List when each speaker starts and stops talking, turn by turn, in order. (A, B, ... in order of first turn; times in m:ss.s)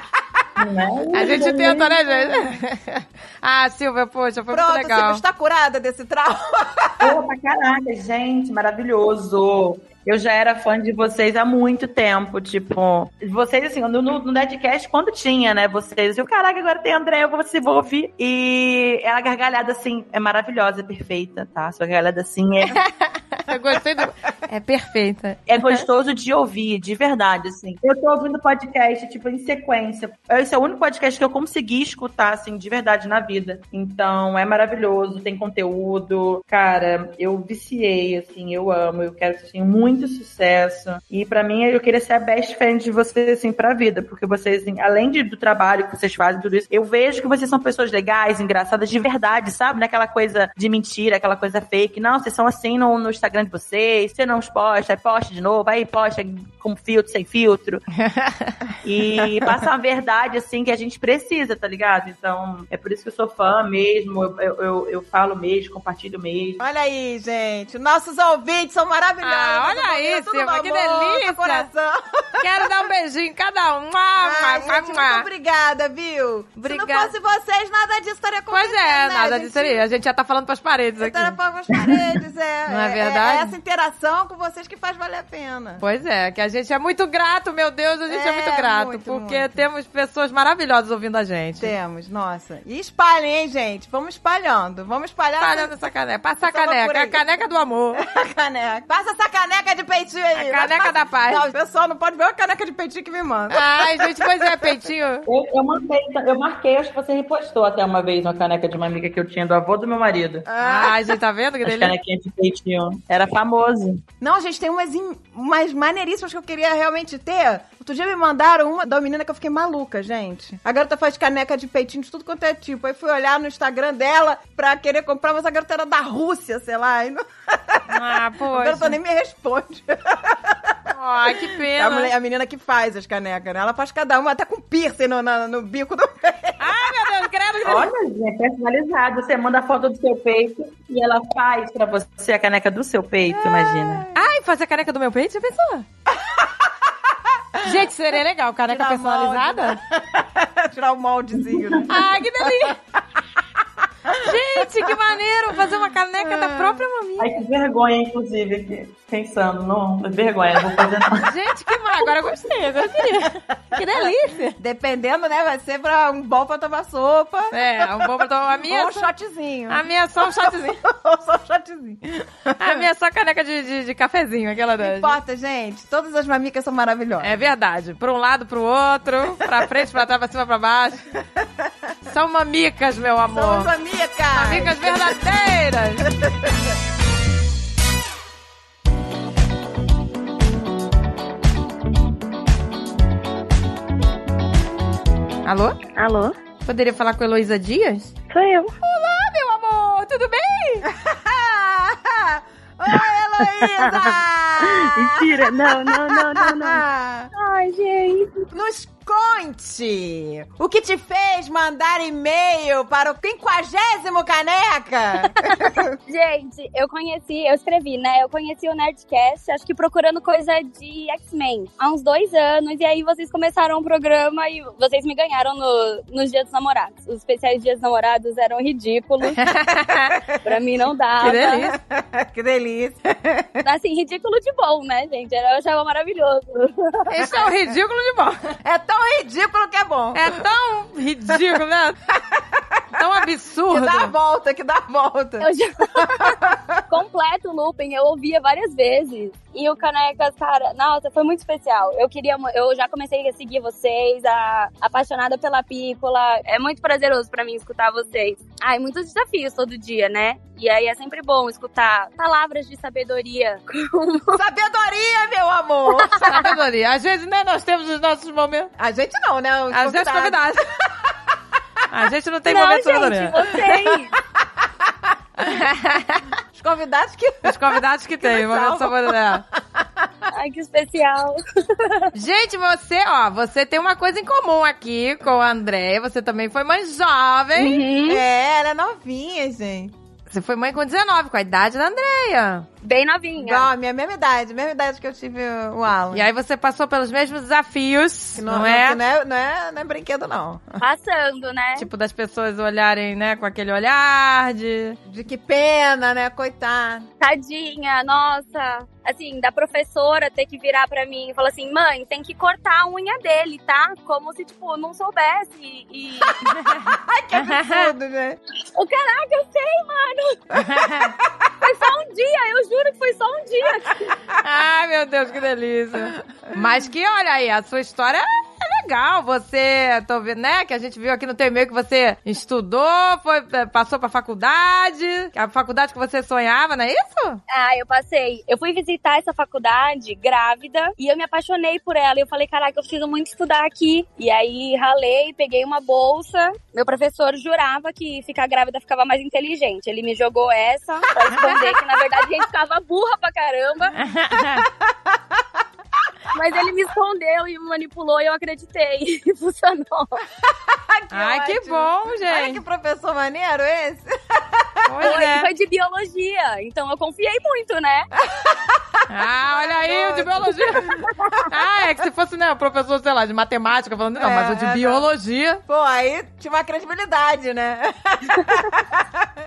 0:00.6-0:02.1 A
0:01.1-0:05.2 B
0:04.5-0:07.2 C
0:07.0-0:22.8 A
0:23.4-0:25.8 B
0:25.5-0:57.8 A
0:58.0-0:58.6 B
0:58.8-1:06.6 A
1:06.6-1:12.7 C
1:09.2-1:11.7 B
1:12.4-1:15.3 B
1:14.2-1:19.8 C
1:16.6-1:17.1 B
1:18.5-1:21.3 B
1:21.0-1:25.8 C
1:22.7-1:23.6 B
1:25.8-1:31.7 B
1:28.1-1:29.6 C
1:31.6-1:35.8 C
1:35.4-1:38.0 B
1:36.4-1:37.2 C
1:38.0-1:44.5 C
1:40.4-1:41.5 B
1:43.5-1:45.2 B
1:45.3-1:50.5 A
1:50.5-1:51.1 C
1:50.6-1:51.9 B
1:51.6-1:54.0 A
1:54.2-2:10.8 C
2:07.9-2:09.0 B
2:10.9-2:12.1 B
2:11.5-2:16.9 C
2:16.6-2:17.9 B
2:17.6-2:24.0 A
2:24.1-2:25.9 B
2:26.2-2:26.7 C
2:27.6-2:29.8 B
2:28.7-2:32.8 C
2:31.9-2:32.8 B
2:34.0-2:34.9 C
2:34.2-2:37.4 B
2:36.2-2:36.8 C
2:37.2-2:41.3 A
2:41.2-2:44.6 B
2:43.8-2:52.8 C
2:47.5-2:49.1 B
2:49.7-2:50.8 B
2:52.6-2:55.2 B
2:54.8-2:57.4 C
2:57.2-3:01.0 B
3:01.4-3:01.7 C
3:02.1-3:03.7 B
3:03.3-3:05.2 C
3:04.3-3:06.1 B
3:06.1-3:06.5 C
3:15.4-3:15.8 B
3:16.0-3:16.3 D
3:16.6-3:18.1 B
3:18.3-3:18.7 D
3:18.8-3:20.9 B
3:20.9-3:25.3 C
3:25.1-3:26.8 D
3:25.9-3:27.3 C
3:27.4-3:28.4 D
3:28.5-3:35.9 C
3:35.3-3:49.4 D
3:49.4-3:50.2 B
3:50.4-3:51.7 D
3:51.2-3:51.8 B
3:51.7-3:53.6 C
3:53.6-3:57.0 D
3:57.1-3:58.6 B
3:57.2-3:57.5 C
3:58.6-4:00.4 C
4:00.1-4:02.0 B
4:02.1-4:02.8 C
4:03.0-4:04.1 B
4:03.7-4:06.8 C
4:05.4-4:24.4 D
4:24.3-4:26.4 C
4:26.2-4:28.7 B
4:28.8-4:31.1 C
4:29.7-4:30.6 B
4:31.9-4:33.4 B
4:32.5-4:34.1 D
4:33.6-4:35.1 C
4:35.4-4:36.2 B
4:36.5-4:40.1 C
4:37.4-4:39.4 B
4:40.3-4:42.1 D
4:42.2-4:47.8 B
4:47.6-4:48.2 D
4:48.0-4:49.9 C
4:50.3-4:52.7 B
4:52.8-4:53.7 D
4:53.4-4:56.2 C
4:56.1-4:59.0 B
4:58.4-5:00.8 C
5:00.8-5:01.9 D
5:01.8-5:05.0 B
5:05.1-5:07.1 C
5:07.2-5:16.4 D
5:16.8-5:18.4 C
5:17.4-5:17.9 B
5:18.7-5:20.4 D
5:20.6-5:21.1 B
5:21.6-5:24.2 D
5:24.4-5:37.4 B
5:37.5-5:54.0 D
5:51.4-5:51.7 C
5:54.0-5:54.6 B
5:54.6-5:55.2 C
5:56.3-6:00.2 D
6:00.7-6:05.0 C
6:01.1-6:02.6 B
6:04.9-6:05.5 B
6:05.0-6:08.1 D
6:08.3-6:11.1 C
6:09.1-6:15.6 B
6:14.2-6:15.0 C
6:15.7-6:19.3 C